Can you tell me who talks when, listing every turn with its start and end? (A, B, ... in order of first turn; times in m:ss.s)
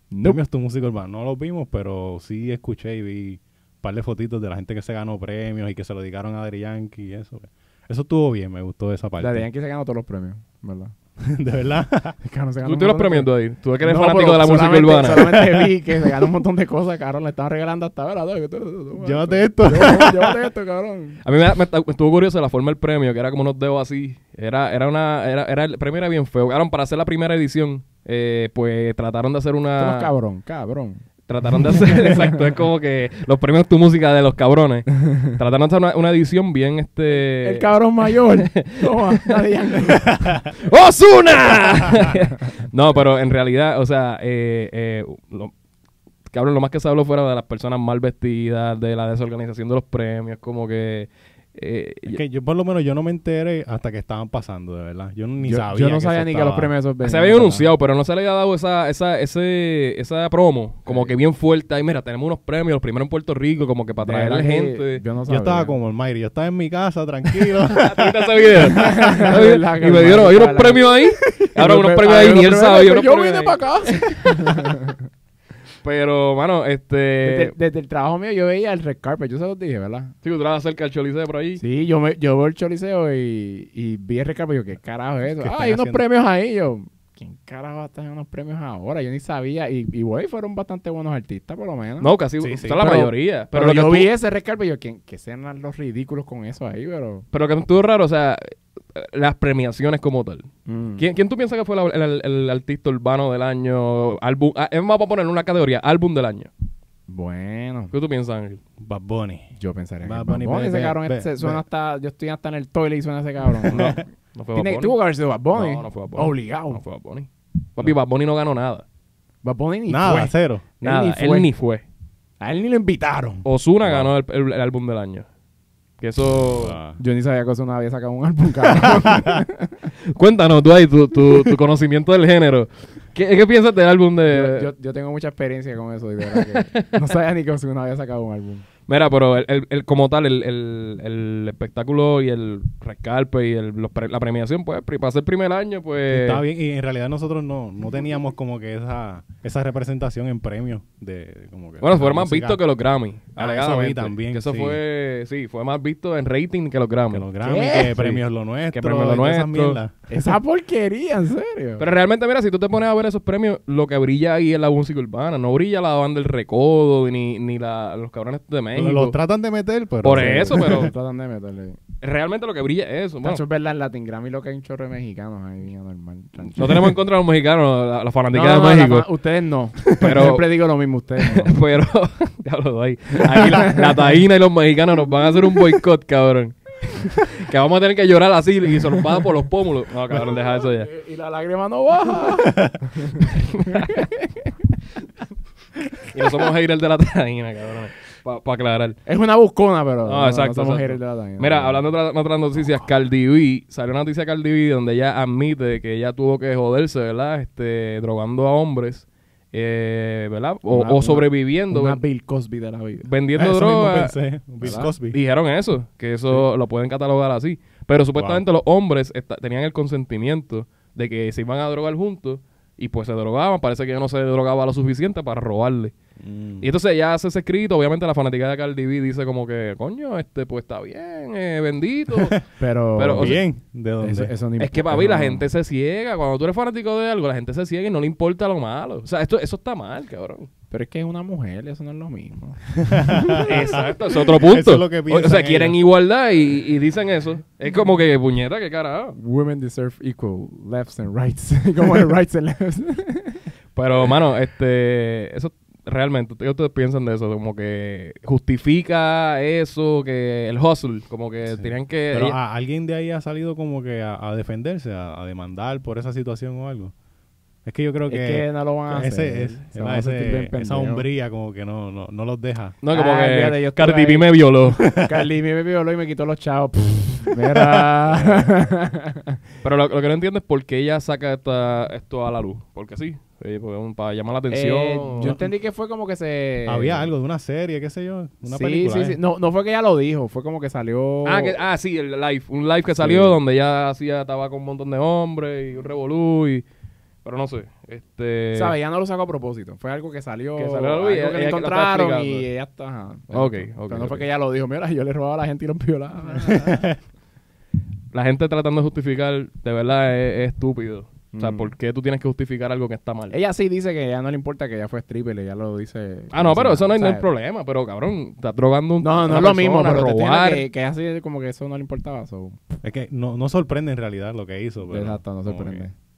0:00.1-0:00.4 A
0:00.2-0:09.4 B
0:09.2-0:10.9 A
0:11.2-0:12.2 B
0:12.2-0:13.3 A
0:12.6-0:15.3 C
0:13.8-0:21.2 A
0:15.2-0:16.3 B
0:19.0-0:20.4 B
0:21.2-0:30.1 C
0:29.8-0:31.0 A
0:31.3-0:37.7 C
0:31.6-0:32.3 A
0:37.1-0:40.4 A
0:38.2-0:39.4 C
0:40.5-0:45.5 C
0:46.3-0:52.2 C
0:52.0-0:56.7 B
0:55.4-0:57.7 A
0:57.0-1:05.0 C
1:00.9-1:01.1 A
1:04.0-1:05.7 A
1:05.3-1:08.7 B
1:07.7-1:14.7 C
1:08.7-1:15.0 A
1:15.8-1:17.5 C
1:17.2-1:20.1 A
1:20.2-1:21.6 C
1:21.6-1:32.1 A
1:25.4-1:26.0 B
1:32.0-1:34.1 C
1:32.4-1:33.1 B
1:33.5-1:37.2 A
1:37.3-1:38.4 C
1:38.9-1:46.5 C
1:40.6-1:41.0 A
1:47.1-1:47.9 A
1:47.9-1:48.6 C
1:48.8-1:49.5 B
1:49.5-1:56.8 A
1:50.0-1:51.6 B
1:53.6-1:54.9 C
1:53.7-1:54.0 B
1:55.5-1:58.8 C
1:59.4-2:01.5 A
1:59.9-2:00.7 B
2:00.8-2:01.8 C
2:02.4-2:03.4 A
2:03.4-2:05.2 C
2:03.8-2:04.1 B
2:06.0-2:06.8 C
2:06.6-2:07.0 B
2:07.0-2:09.8 A
2:10.1-2:14.7 C
2:14.2-2:18.6 A
2:16.3-2:16.9 C
2:18.9-2:26.4 C
2:26.1-2:32.6 B
2:31.8-2:37.3 C
2:33.4-2:34.8 B
2:37.1-2:39.9 B
2:37.4-2:38.2 A
2:38.7-2:39.8 C
2:40.1-2:41.8 A
2:41.8-2:49.2 C
2:48.7-2:50.9 B
2:50.0-2:50.9 C
2:50.1-2:51.8 A
2:52.0-2:53.4 C
2:53.2-2:57.0 A
2:56.6-2:59.1 C
2:58.3-3:01.5 A
2:59.8-3:00.6 C
3:01.2-3:10.9 C
3:10.1-3:14.5 A
3:13.2-3:14.1 C
3:16.0-3:19.0 C
3:19.0-3:21.8 A
3:20.0-3:32.0 C
3:30.7-3:33.1 A
3:33.0-3:45.9 C
3:33.4-3:35.2 B
3:34.6-3:34.9 A
3:38.2-3:38.4 B
3:46.2-3:46.7 B
3:46.6-3:53.4 C
3:52.6-3:53.4 A
3:53.2-3:54.3 B
3:54.0-3:55.4 A
3:54.6-4:00.5 C
4:00.7-4:03.5 A
4:02.9-4:05.8 B
4:03.4-4:09.2 C
4:09.2-4:13.4 A
4:13.7-4:22.4 C
4:21.5-4:26.9 B
4:27.6-4:32.8 B
4:28.1-4:31.0 A
4:32.8-4:34.8 C
4:32.9-4:34.4 A
4:34.8-4:35.1 B
4:34.9-4:39.3 A
4:38.2-4:38.5 B
4:39.6-4:45.4 C
4:44.5-4:47.1 A
4:45.2-4:45.5 B
4:46.6-4:49.2 B
4:48.4-4:51.6 A
4:51.2-4:56.6 C
4:52.9-4:53.4 A
4:57.2-4:58.7 C
4:58.5-5:06.9 A
5:00.6-5:02.4 C
5:03.3-5:04.3 C
5:06.5-5:06.9 B
5:08.1-5:13.4 C
5:11.3-5:11.7 A
5:13.3-5:17.3 A
5:16.3-5:20.7 C
5:19.0-5:22.6 A
5:22.8-5:25.8 B
5:24.9-5:25.9 A